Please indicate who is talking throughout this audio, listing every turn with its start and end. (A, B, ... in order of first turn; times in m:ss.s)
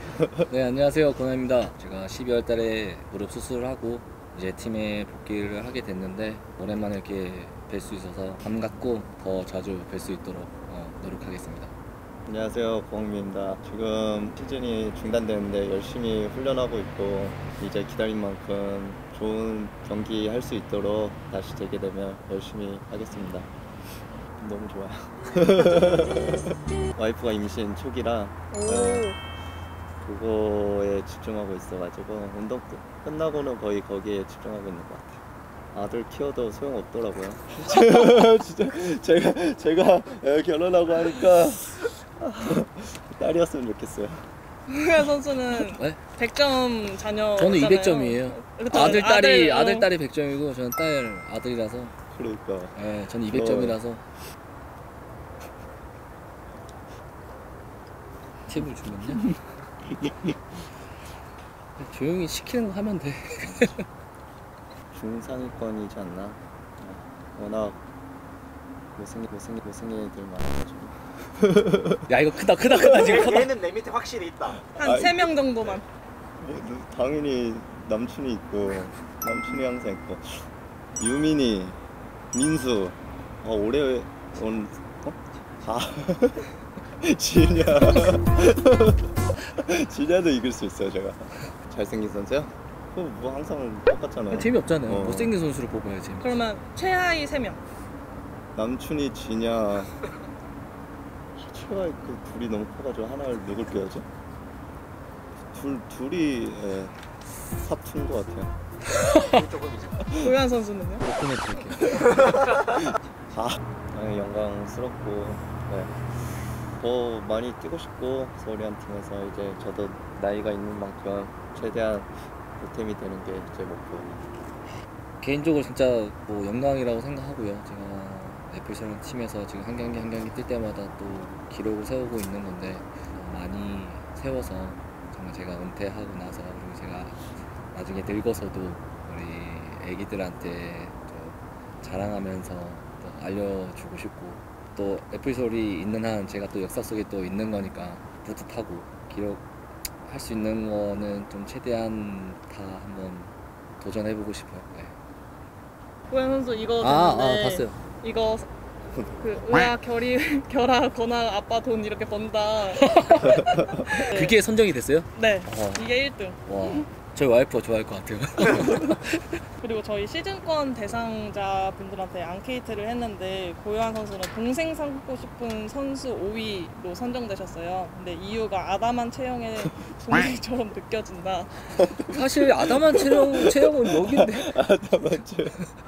0:00.5-0:11.7 A
0:12.2-0:23.5 B
0:24.4-0:29.1 B
0:28.5-0:29.2 C
0:30.0-0:35.2 B
0:35.7-0:44.3 B
0:44.7-0:49.9 C
0:45.7-0:46.0 A
0:47.4-0:51.9 A
0:52.1-0:52.7 B
0:52.7-0:54.0 A
0:53.3-0:53.8 B
0:58.5-0:59.2 A
1:01.8-1:03.8 A
1:03.4-1:03.8 B
1:04.9-1:07.8 B
1:09.0-1:12.0 B
1:12.1-1:13.5 A
1:12.7-1:14.7 D
1:14.4-1:15.7 B
1:14.7-1:15.8 C
1:16.4-1:20.4 B
1:21.0-1:21.8 B
1:22.3-1:35.3 B
1:34.3-1:36.4 A
1:36.2-1:37.6 C
1:38.5-1:39.9 B
1:41.3-1:44.1 B
1:45.5-1:46.9 B
1:47.6-1:48.5 B
1:48.9-1:49.4 A
1:49.2-1:50.1 D
1:50.1-1:51.0 C
1:51.0-1:52.3 A
1:53.3-1:55.9 B
1:56.7-2:04.3 B
2:05.2-2:29.4 A
2:30.0-2:35.0 A
2:36.1-2:38.5 C
2:36.8-2:37.8 A
2:39.2-2:44.4 C
2:42.8-2:49.4 A
2:45.1-2:46.8 C
2:49.6-3:01.7 C
3:02.0-3:04.6 A
3:02.7-3:05.6 B